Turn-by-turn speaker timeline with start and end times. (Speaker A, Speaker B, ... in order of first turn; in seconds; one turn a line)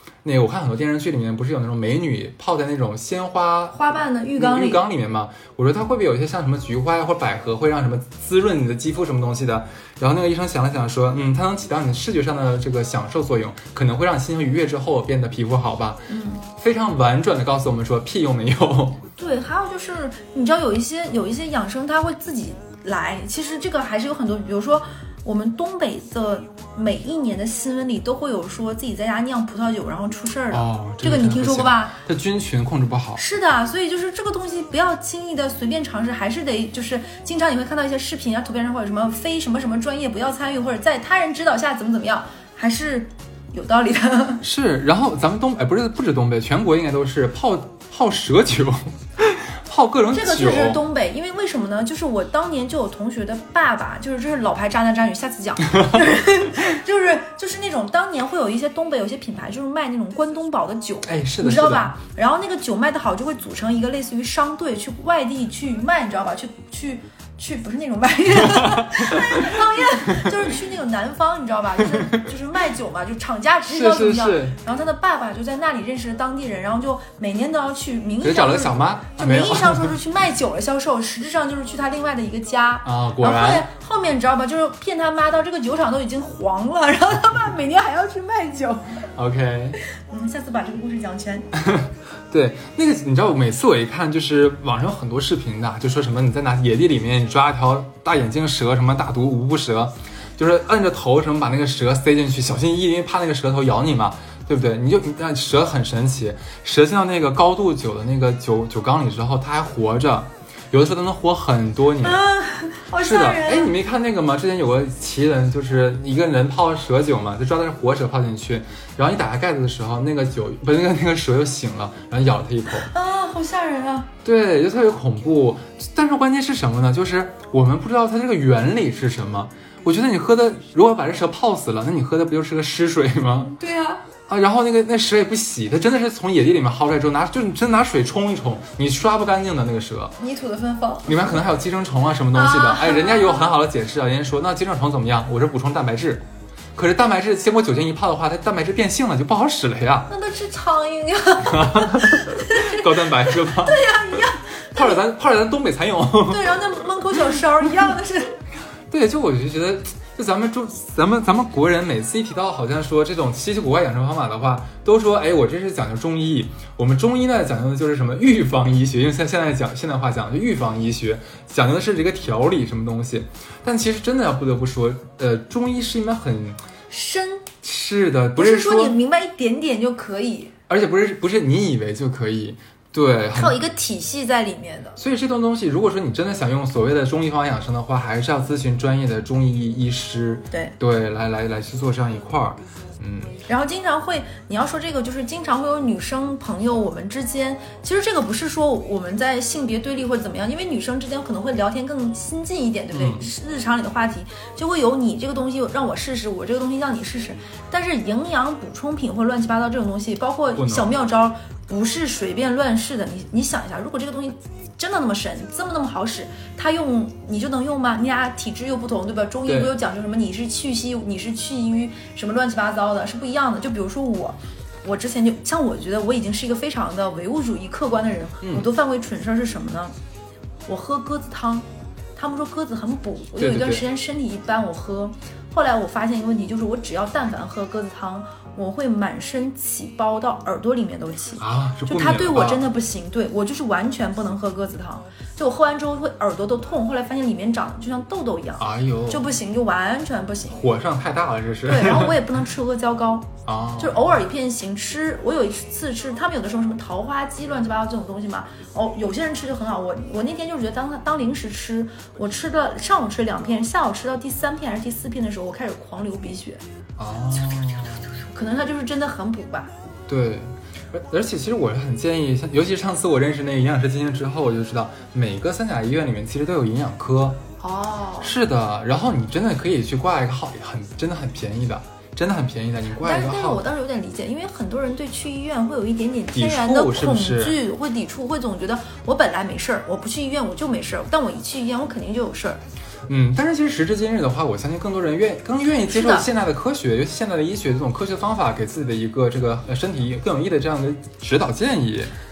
Speaker A: 0.2-19.0
Speaker B: 3.7-4.8
Speaker B: 16.1-16.4
Speaker B: 19.2-32.0
Speaker A: 30.5-33.2
Speaker B: 33.1-44.4
Speaker A: 44.4-50.8
Speaker B: 50.1-89.0
Speaker A: 61.0-61.9
Speaker A: 68.4-70.3
Speaker A: 73.7-74.6
Speaker A: 78.2-79.9
Speaker A: 82.8-83.7
Speaker A: 89.2-89.8
Speaker B: 89.9-91.5
Speaker A: 91.6-112.2
Speaker B: 112.0-113.7
Speaker A: 113.0-122.9
Speaker B: 122.8-124.1
Speaker A: 124.2-133.5
Speaker B: 133.5-134.0
Speaker A: 134.3-140.1
Speaker B: 140.2-141.4
Speaker A: 141.1-150.1
Speaker B: 142.3-143.5
Speaker B: 150.1-155.0
Speaker A: 151.5-153.8
Speaker A: 154.7-156.6
Speaker B: 156.2-158.3
Speaker A: 158.9-176.6
Speaker B: 176.9-177.5
Speaker A: 177.6-179.0
Speaker B: 178.3-180.5
Speaker A: 180.7-183.6
Speaker B: 183.3-185.0
Speaker A: 185.0-193.3
Speaker B: 193.5-229.9
Speaker A: 202.9-203.2
Speaker A: 210.6-210.9
Speaker A: 219.4-219.7
Speaker A: 228.4-228.7
Speaker B: 230.7-250.6
Speaker A: 233.4-233.8
Speaker A: 241.4-242.6
Speaker A: 248.6-249.2
Speaker A: 250.5-252.2
Speaker B: 251.6-266.6
Speaker A: 253.4-254.2
Speaker A: 267.0-268.1
Speaker B: 268.0-269.7
Speaker A: 270.1-277.4
Speaker B: 277.6-278.3
Speaker A: 278.2-283.6
Speaker B: 283.0-292.6
Speaker A: 286.3-287.6
Speaker A: 293.1-302.1
Speaker B: 295.9-296.3